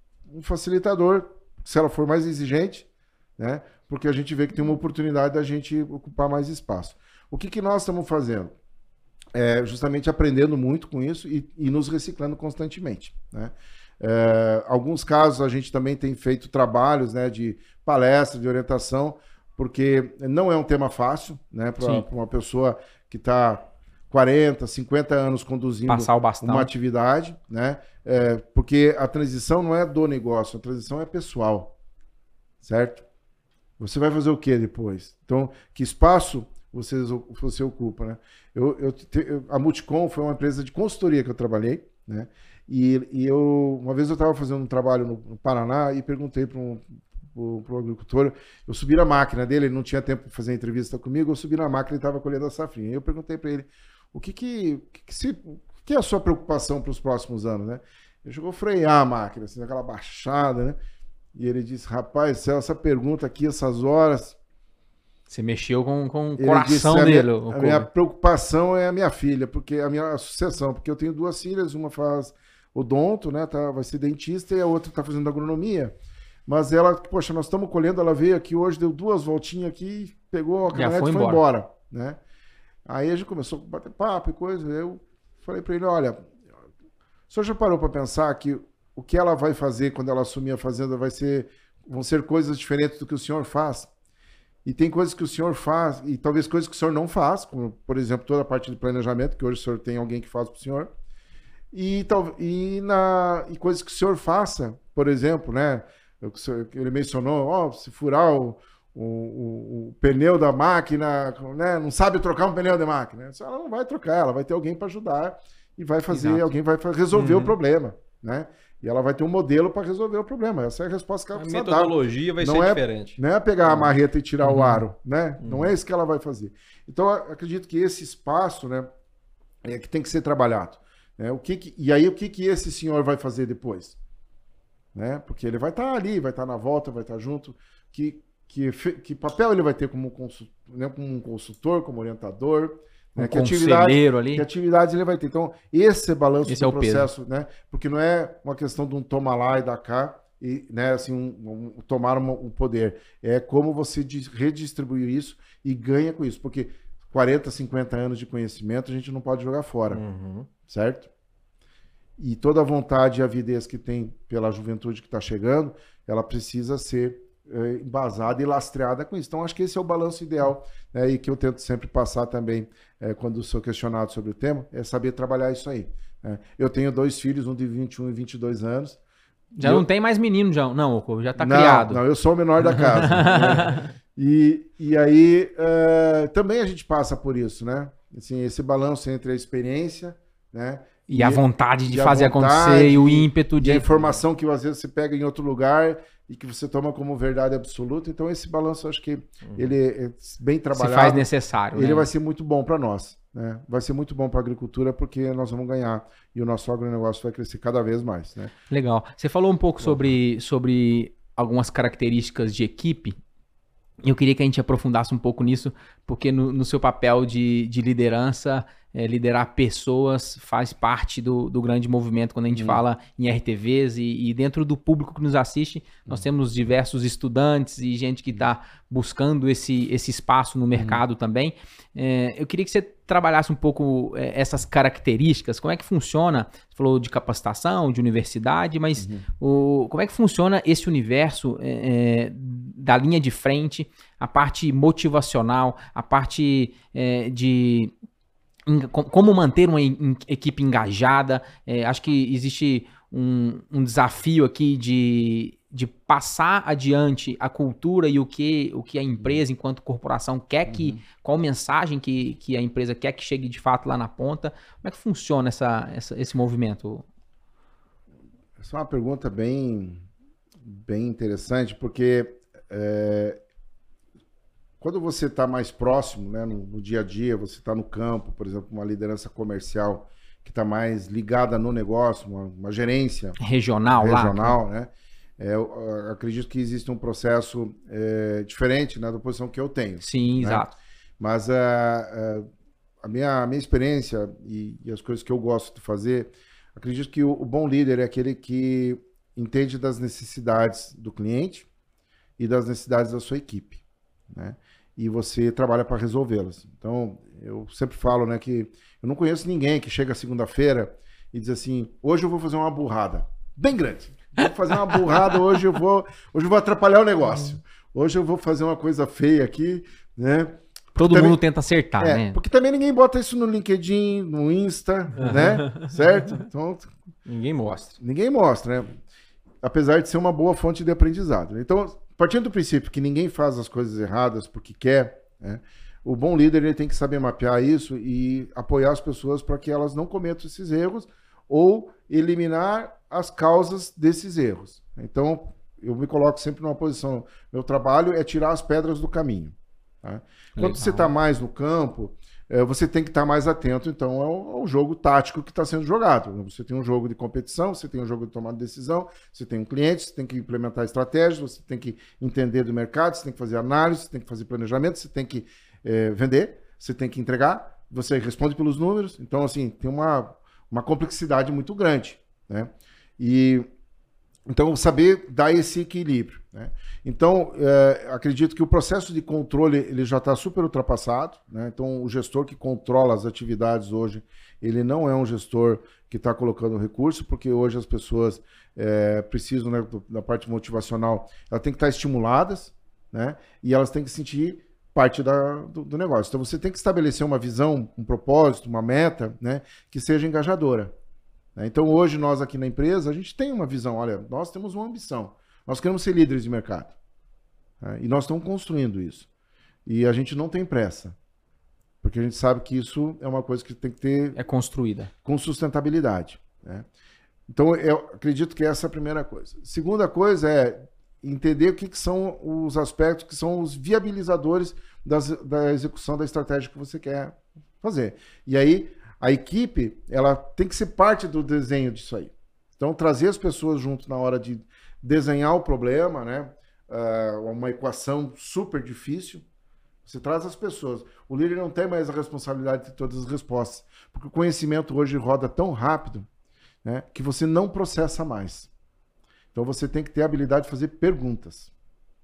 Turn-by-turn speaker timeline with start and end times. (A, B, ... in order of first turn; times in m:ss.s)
0:00.3-0:02.9 A
0:03.4-0:08.5 A
0:09.3-0:31.7 A
0:25.9-0:26.7 B
0:32.6-0:33.0 A
0:33.8-1:00.8 A
1:01.4-1:04.4 A
1:05.3-1:07.9 B
1:06.4-1:15.9 A
1:16.5-1:22.2 A
1:20.7-1:21.4 B
1:22.9-1:26.2 A
1:27.3-1:33.9 A
1:34.6-1:40.9 A
1:41.7-2:08.9 A
1:56.1-1:56.5 B
2:01.4-2:03.9 C
2:04.4-2:04.8 B
2:05.4-2:05.7 C
2:09.6-2:14.0 A
2:14.9-2:40.0 A
2:23.2-2:24.4 B
2:26.4-2:27.1 B
2:39.9-2:40.5 C
2:40.7-2:41.1 A
2:42.2-2:59.0 A
2:59.6-3:02.0 B
2:59.6-2:59.9 A
3:01.4-3:28.5 A
3:02.7-3:03.8 B
3:11.1-3:14.2 B
3:19.4-3:19.7 C
3:20.7-3:22.1 B
3:28.7-3:33.2 B
3:34.0-4:07.9 B
3:42.5-3:42.8 A
3:50.7-3:51.0 A
3:59.0-3:59.2 A
4:08.7-4:27.0 B
4:20.7-4:21.0 A
4:28.6-4:30.0 A
4:30.6-4:33.4 A
4:34.8-4:43.4 A
4:43.4-4:44.6 B
4:44.0-4:50.7 A
4:50.0-4:50.7 B
4:51.2-4:52.5 A
4:53.0-5:01.7 A
5:02.4-5:21.4 A
5:21.0-5:22.4 B
5:22.0-5:26.9 A
5:25.2-5:25.7 C
5:27.3-5:28.0 C
5:28.0-5:28.9 A
5:29.6-6:13.7 A
5:50.6-5:51.1 B
6:14.5-6:40.9 A
6:41.6-6:47.0 A
6:47.8-6:49.3 A
6:49.9-6:51.2 A
6:52.0-6:54.4 A
6:54.4-6:55.1 B
6:55.2-6:56.8 A
6:57.5-7:19.4 A
7:20.0-7:26.3 A
7:26.8-7:28.7 A
7:29.5-7:31.7 A